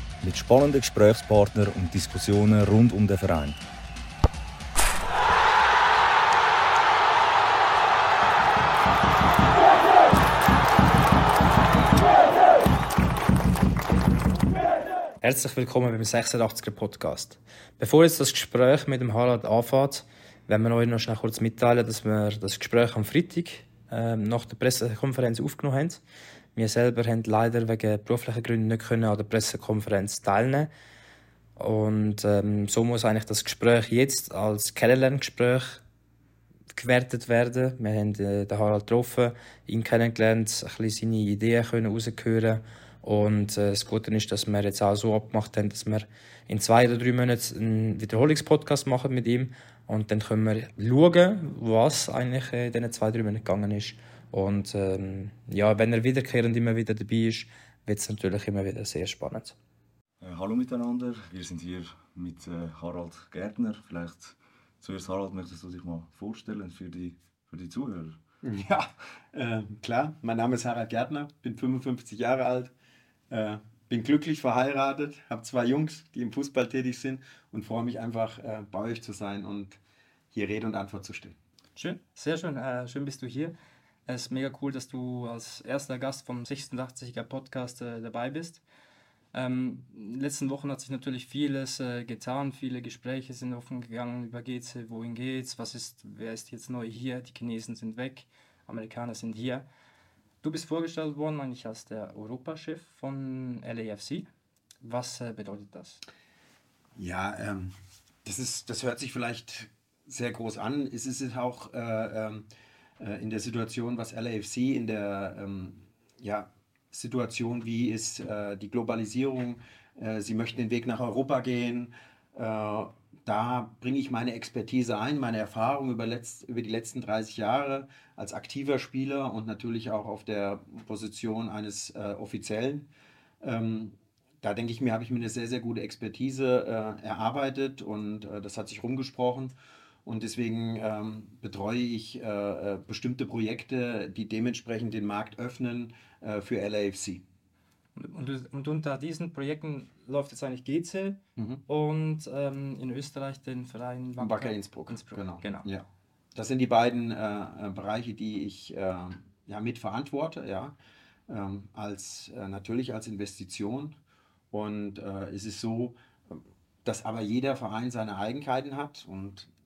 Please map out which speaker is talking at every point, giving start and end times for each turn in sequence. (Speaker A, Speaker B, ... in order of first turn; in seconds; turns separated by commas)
Speaker A: 0.2-3.6, Speaker B: 15.2-26.0, Speaker B: 26.5-30.7, Speaker B: 31.6-35.8, Speaker B: 36.7-59.5, Speaker A: 60.2-68.2, Speaker C: 68.4-72.7, Speaker C: 73.3-79.8, Speaker C: 80.3-81.4, Speaker B: 81.8-83.5, Speaker B: 84.1-88.6, Speaker B: 89.3-99.6, Speaker B: 100.4-104.3, Speaker B: 104.8-106.0, Speaker C: 107.0-112.5, Speaker C: 113.0-132.9, Speaker C: 133.4-147.2, Speaker B: 147.9-155.7, Speaker C: 151.4-151.6, Speaker C: 154.2-160.8, Speaker C: 161.3-164.0, Speaker C: 164.5-169.5